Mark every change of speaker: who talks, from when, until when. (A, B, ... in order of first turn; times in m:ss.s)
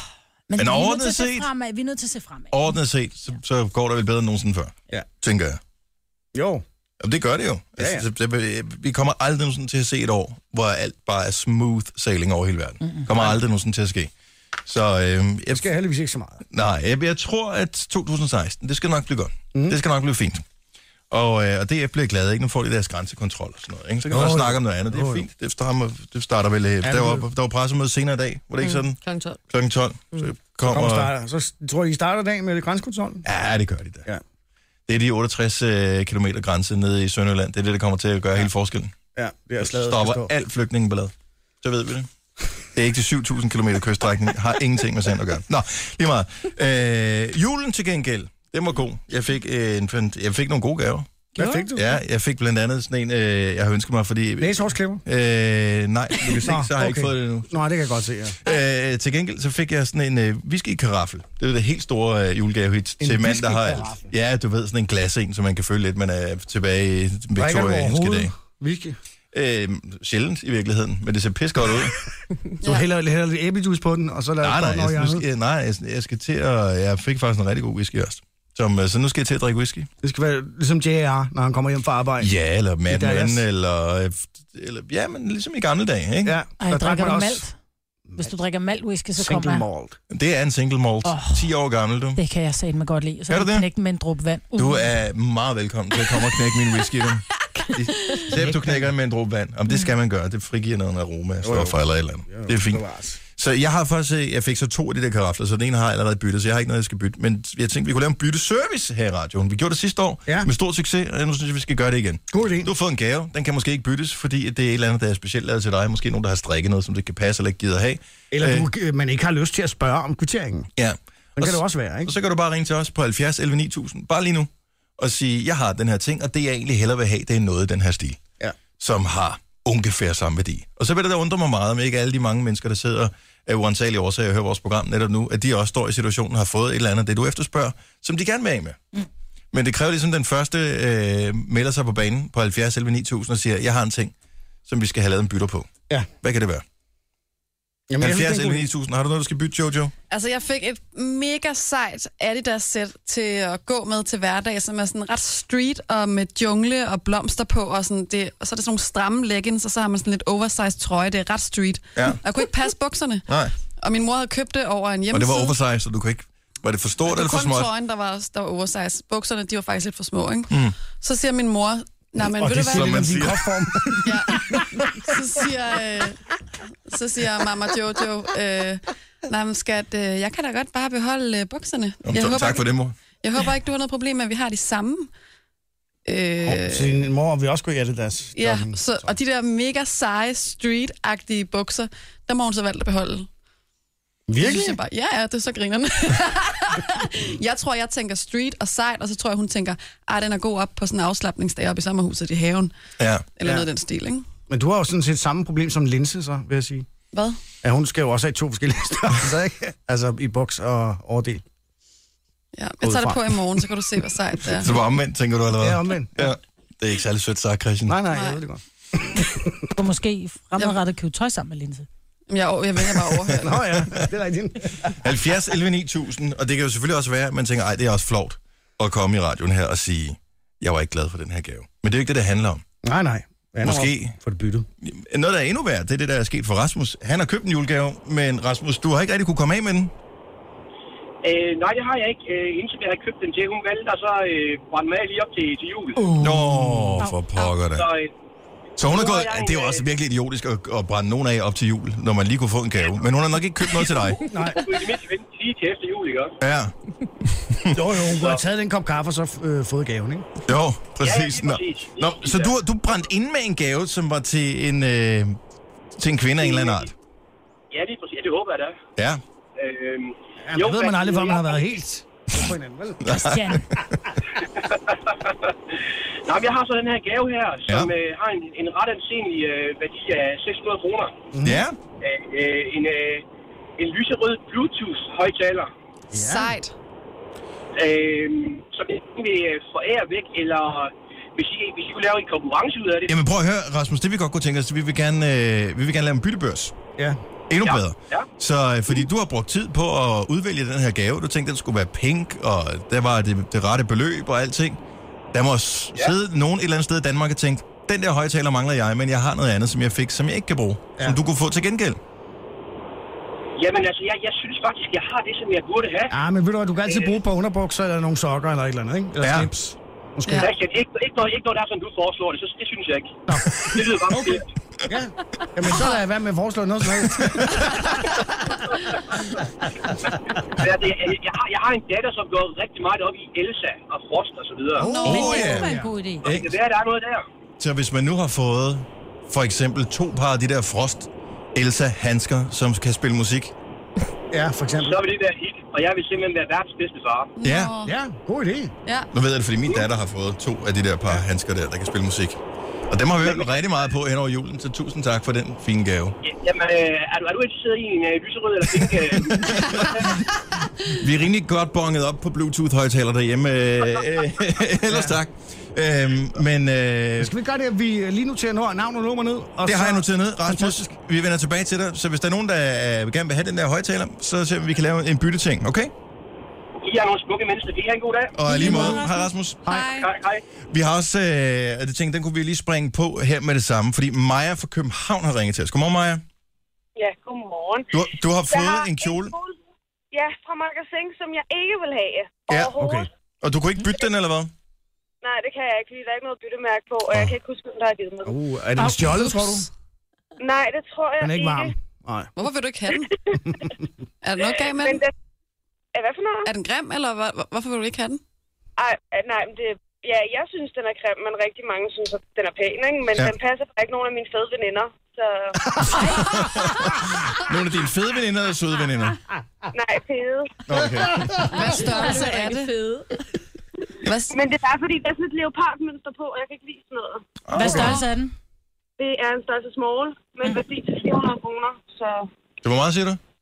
0:00.5-0:02.8 A
0:00.6-0:01.5 B
0:02.5-0:05.6 B
0:06.3-0:06.6 C
0:07.0-0:14.1 B
0:07.8-0:08.0 C
0:13.1-0:13.4 C
0:14.7-0:15.7 B
0:15.5-0:16.4 C
0:16.5-0:20.4 B
0:21.1-0:29.0 B
0:24.1-0:25.2 C
0:26.8-0:27.2 C
0:28.6-0:29.4 D
0:29.5-0:31.1 B
0:30.7-0:33.3 C
0:33.2-0:34.1 B
0:34.9-0:39.0 B
0:39.2-0:40.3 C
0:39.6-0:42.1 B
0:42.8-0:57.5 B
0:51.4-0:52.0 C
0:54.4-0:55.0 C
0:56.4-0:58.4 C
0:58.4-1:08.3 B
1:03.0-1:04.1 C
1:07.4-1:09.0 C
1:09.3-1:12.0 B
1:12.6-1:15.2 C
1:14.4-1:19.9 B
1:20.0-1:22.3 C
1:22.2-1:26.4 B
1:22.9-1:23.4 C
1:26.2-1:27.4 C
1:26.6-1:27.5 A
1:28.2-1:29.7 A
1:29.2-1:30.0 C
1:30.1-1:32.2 B
1:31.0-1:31.5 A
1:32.2-1:34.8 A
1:33.3-1:33.7 B
1:34.6-1:42.8 B
1:38.3-1:38.9 C
1:41.4-1:43.2 C
1:43.4-1:58.7 B
1:52.3-1:52.7 C
1:58.3-2:00.7 C
2:00.8-2:08.2 B
2:01.4-2:02.1 C
2:08.7-2:18.8 B
2:19.5-2:24.1 B
2:24.7-2:25.7 B
2:26.2-2:26.6 B
2:27.9-2:28.7 C
2:28.0-2:29.9 B
2:30.1-2:43.3 E
2:43.3-2:43.5 B
2:43.8-2:45.6 E
2:45.1-2:47.7 B
2:47.1-2:53.2 E
2:50.5-2:50.8 B
2:52.4-2:54.6 C
2:52.6-2:53.9 B
2:54.0-2:56.2 E
2:56.9-3:02.6 E
3:02.0-3:03.0 B
3:03.2-3:05.1 E
3:06.1-3:07.0 E
3:06.4-3:08.8 C
3:08.4-3:13.3 E
3:14.3-3:14.8 C
3:14.4-3:22.7 E
3:23.0-3:23.3 B
3:23.4-3:24.2 E
3:24.5-3:26.9 C
3:27.1-3:27.4 E
3:27.6-3:31.4 C
3:32.5-3:34.7 E
3:32.8-3:33.4 C
3:34.6-3:38.0 B
3:35.6-3:36.4 C
3:37.9-3:39.5 C
3:38.1-3:38.4 E
3:39.8-3:41.9 A
3:42.3-3:43.6 E
3:43.4-3:45.0 C
3:43.8-3:44.1 B
3:45.0-3:52.6 B
3:52.8-3:54.7 C
3:53.6-3:54.2 B
3:54.8-3:59.9 B
4:01.2-4:06.1 F
4:06.0-4:07.0 C
4:06.2-4:07.9 B
4:07.0-4:07.4 A
4:07.7-4:08.1 F
4:08.8-4:14.2 B
4:08.8-4:09.8 F
4:14.2-4:14.6 C
4:14.5-4:16.4 F
4:16.4-4:16.7 B
4:17.3-4:17.8 B
4:17.7-4:20.3 C
4:18.1-4:18.4 F
4:20.5-4:25.4 B
4:21.0-4:22.6 F
4:26.0-4:26.9 B
4:26.4-4:26.9 F
4:27.7-4:28.8 F
4:29.0-4:29.2 B
4:29.6-4:31.8 F
4:30.4-4:33.1 C
4:33.0-4:34.1 B
4:33.1-4:33.6 A
4:34.6-4:41.2 F
4:41.3-4:41.6 C
4:41.4-4:41.8 B
4:42.0-4:43.2 F
4:43.8-4:45.7 F
4:46.1-4:46.6 C
4:46.1-4:46.7 E
4:47.8-4:53.2 F
4:53.1-4:56.7 B
4:57.5-5:04.8 B
4:57.6-4:58.3 F
5:05.3-5:12.0 B
5:13.6-5:16.1 F
5:16.1-5:20.5 C
5:19.2-5:19.5 B
5:20.3-5:20.5 E
5:20.4-5:24.5 F
5:23.3-5:28.2 C
5:30.6-5:34.9 F
5:34.8-5:35.9 C
5:34.8-5:35.7 E
5:35.0-5:36.3 A
5:35.0-5:36.5 B
5:36.2-5:37.2 F
5:37.6-5:43.5 B
5:44.3-5:45.0 C
5:44.8-5:47.3 F
5:47.4-5:47.9 E
5:47.4-5:47.8 B
5:47.8-5:48.7 C
5:49.1-5:56.2 B
5:56.2-6:00.2 F
5:58.7-6:00.1 B
6:00.9-6:07.3 B
6:04.9-6:05.2 C
6:07.2-6:10.9 C
6:09.6-6:15.9 B
6:16.8-6:18.4 F
6:18.3-6:19.7 B
6:18.5-6:19.3 A
6:18.7-6:19.0 C
6:19.6-6:20.0 C
6:19.7-6:20.1 E
6:20.0-6:20.4 F
6:20.7-6:26.2 B
6:27.0-6:27.9 G
6:27.9-6:29.4 B
6:28.5-6:29.6 G
6:30.1-6:33.1 G
6:32.5-6:32.8 B
6:32.8-6:33.1 C
6:33.4-6:34.5 B
6:35.2-6:38.4 G
6:38.2-6:39.7 C
6:38.8-6:39.2 A
6:40.4-6:41.7 G
6:41.2-6:42.3 C
6:42.4-6:43.1 E
6:43.4-6:43.7 C
6:44.2-6:45.0 E
6:44.8-6:45.1 G
6:45.9-6:46.5 G
6:46.4-6:48.2 E
6:48.8-6:55.6 G
6:55.8-6:59.2 B
6:56.0-6:56.2 A
6:59.7-7:00.6 G
7:00.7-7:01.5 B
7:01.5-7:02.7 E
7:01.6-7:03.2 D
7:04.0-7:04.4 E
7:04.3-7:07.2 G
7:07.5-7:08.0 B
7:07.5-7:08.3 A
7:07.7-7:08.0 E
7:09.0-7:12.3 G
7:12.6-7:13.2 B